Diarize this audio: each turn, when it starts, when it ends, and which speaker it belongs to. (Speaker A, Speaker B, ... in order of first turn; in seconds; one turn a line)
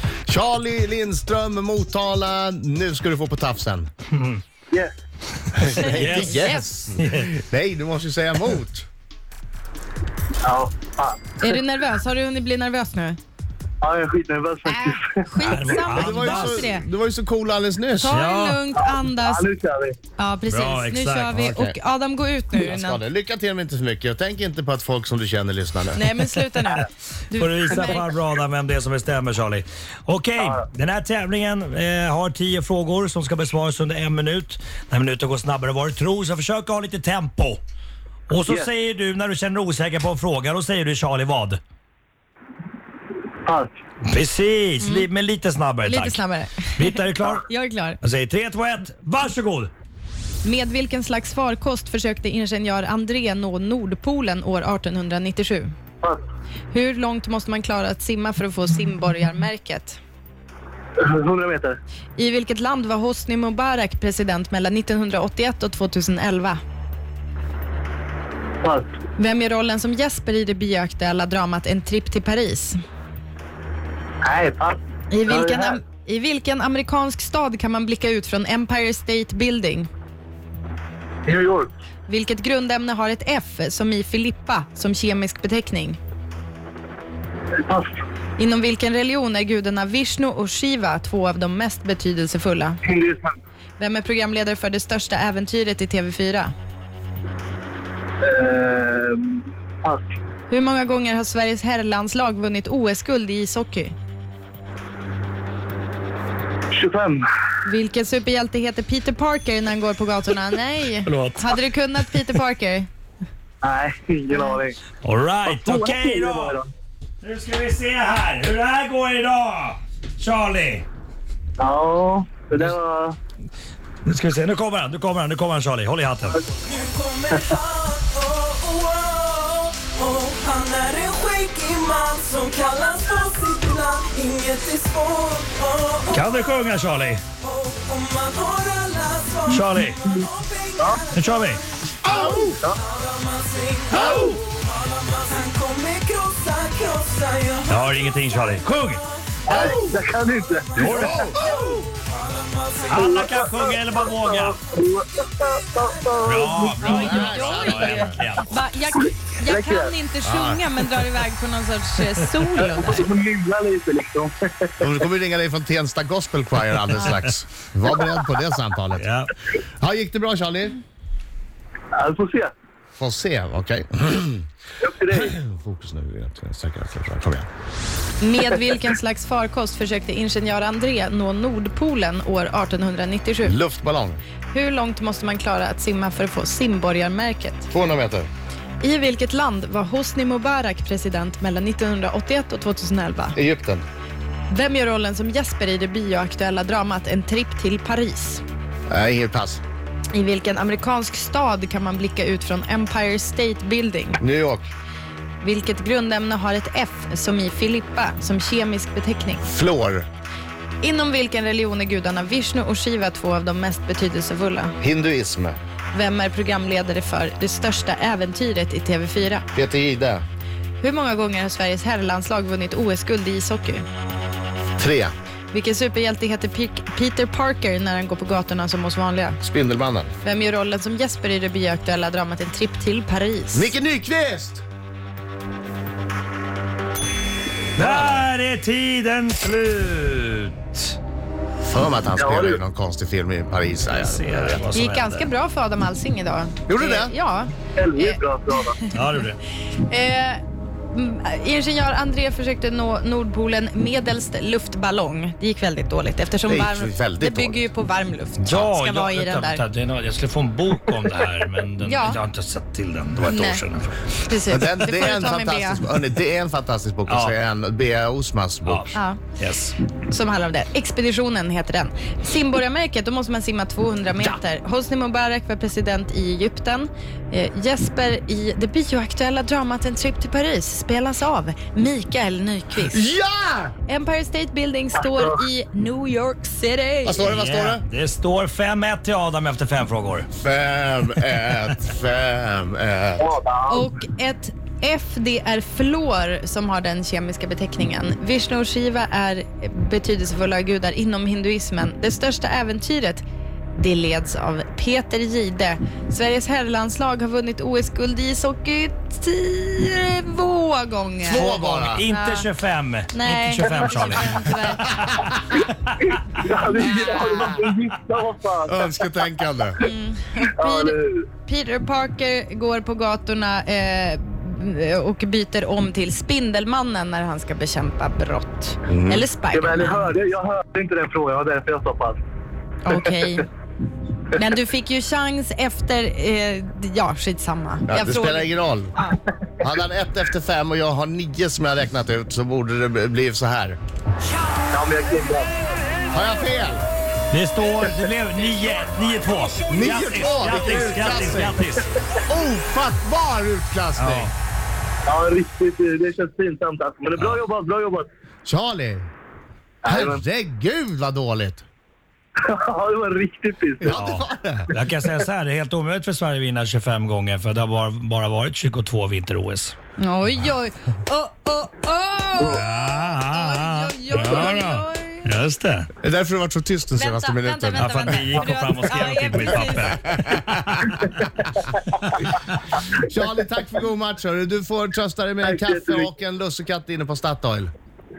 Speaker A: 0.3-3.9
Speaker B: 4.1-4.4
Speaker A: 5.6-8.9
Speaker C: 5.8-6.7
Speaker B: 5.8-6.4
Speaker B: 7.0-7.3
Speaker D: 10.4-11.4
Speaker C: 11.4-13.2
Speaker D: 13.8-15.3
Speaker C: 14.7-16.8
Speaker B: 15.4-16.6
Speaker A: 15.9-18.2
Speaker C: 18.0-19.4
Speaker B: 18.1-18.7
Speaker D: 18.8-20.0
Speaker C: 20.2-23.0
Speaker B: 20.5-21.4
Speaker A: 21.3-21.8
Speaker A: 22.6-26.0
Speaker C: 25.9-28.1
Speaker B: 27.3-37.6
Speaker B: 38.3-41.6
Speaker D: 43.4-43.7
Speaker B: 44.0-46.2
Speaker C: 44.8-45.1
Speaker C: 45.8-48.0
Speaker B: 46.8-47.5
Speaker B: 48.0-49.7
Speaker C: 50.4-55.7
Speaker C: 56.7-60.0
Speaker D: 61.0-61.8
Speaker C: 62.1-66.6
Speaker D: 68.6-69.0
Speaker C: 69.2-72.8
Speaker D: 74.2-75.8
Speaker C: 75.1-79.9
Speaker D: 81.2-81.7
Speaker C: 82.1-86.0
Speaker D: 87.7-87.9
Speaker C: 88.4-92.8
Speaker D: 92.8-93.4
Speaker C: 93.8-96.5
Speaker D: 98.2-100.1
Speaker C: 100.5-103.9
Speaker D: 106.7-107.2
Speaker C: 107.7-112.9
Speaker B: 111.1-111.5
Speaker D: 113.6-114.8
Speaker B: 115.0-116.6
Speaker D: 115.4-116.7
Speaker B: 117.2-120.8
Speaker D: 121.6-123.2
Speaker B: 124.0-126.4
Speaker E: 126.6-136.4
Speaker B: 136.1-137.2
Speaker E: 137.4-149.6
Speaker B: 139.5-140.0
Speaker B: 141.1-141.6
Speaker A: 142.0-142.6
Speaker A: 143.9-144.4
Speaker B: 147.7-149.0
Speaker D: 149.5-151.3
Speaker A: 149.5-150.0
Speaker E: 150.8-153.4
Speaker B: 150.8-151.2
Speaker A: 150.9-151.8
Speaker B: 152.9-154.6
Speaker D: 153.2-157.3
Speaker B: 156.2-158.5
Speaker C: 156.8-163.1
Speaker A: 156.9-158.2
Speaker D: 159.0-159.9
Speaker A: 160.2-160.6
Speaker D: 162.6-164.8
Speaker A: 164.8-169.0
Speaker B: 169.0-169.3
Speaker A: 169.8-170.8
Speaker D: 171.9-172.5
Speaker A: 173.0-174.4
Speaker D: 174.8-175.3
Speaker A: 175.1-177.5
Speaker C: 178.2-183.6
Speaker A: 183.4-184.2
Speaker C: 184.5-187.7
Speaker A: 187.7-188.3
Speaker C: 188.8-193.4
Speaker A: 193.3-193.8
Speaker C: 194.5-198.4
Speaker A: 198.9-199.6
Speaker C: 200.1-204.2
Speaker A: 204.2-204.6
Speaker C: 205.4-209.4
Speaker A: 209.4-210.1
Speaker C: 210.8-214.7
Speaker A: 214.8-215.6
Speaker C: 215.9-219.4
Speaker A: 219.5-220.2
Speaker C: 220.8-223.8
Speaker A: 224.8-225.1
Speaker C: 225.5-229.4
Speaker A: 229.4-230.1
Speaker C: 230.2-233.7
Speaker A: 233.5-234.6
Speaker A: 237.8-238.3
Speaker B: 237.8-240.9
Speaker A: 241.6-244.6
Speaker D: 242.2-242.6
Speaker B: 243.9-245.3
Speaker C: 244.7-249.0
Speaker A: 246.7-247.1
Speaker D: 247.8-248.8
Speaker B: 248.9-249.4
Speaker C: 249.9-259.6
Speaker A: 256.4-257.6
Speaker B: 258.4-264.0
Speaker C: 261.8-262.2
Speaker C: 263.2-263.6
Speaker C: 264.2-265.9
Speaker A: 264.5-268.9
Speaker B: 267.1-267.3
Speaker B: 268.7-269.8
Speaker C: 268.9-269.2
Speaker C: 270.1-283.1
Speaker A: 282.9-283.7
Speaker C: 283.9-287.3
Speaker D: 285.0-285.3
Speaker A: 287.0-287.8
Speaker B: 287.2-290.3
Speaker A: 290.4-293.3
Speaker D: 293.2-293.9
Speaker C: 293.7-303.2
Speaker C: 303.8-312.5
Speaker A: 311.2-312.0
Speaker B: 311.4-316.4
Speaker C: 313.1-315.0
Speaker D: 316.1-319.0
Speaker A: 318.7-319.8
Speaker C: 319.8-330.1
Speaker D: 320.5-321.2
Speaker A: 328.9-329.3
Speaker D: 329.5-332.2
Speaker C: 332.8-333.5
Speaker C: 334.3-339.2
Speaker A: 337.9-338.9
Speaker A: 339.6-343.8
Speaker D: 344.7-345.5
Speaker A: 346.1-346.9
Speaker B: 347.3-351.9
Speaker A: 349.7-351.6
Speaker A: 352.3-354.3
Speaker B: 354.0-354.3
Speaker D: 355.1-358.1
Speaker A: 358.4-359.1
Speaker D: 359.8-360.2
Speaker A: 359.9-361.6
Speaker D: 362.4-364.2
Speaker A: 363.8-364.7
Speaker B: 364.7-369.7
Speaker C: 370.0-375.3
Speaker B: 372.4-375.9
Speaker A: 374.1-374.5
Speaker A: 376.0-378.3
Speaker C: 376.9-380.0
Speaker B: 377.7-380.4
Speaker A: 380.0-381.1
Speaker A: 382.9-387.7
Speaker D: 385.4-386.1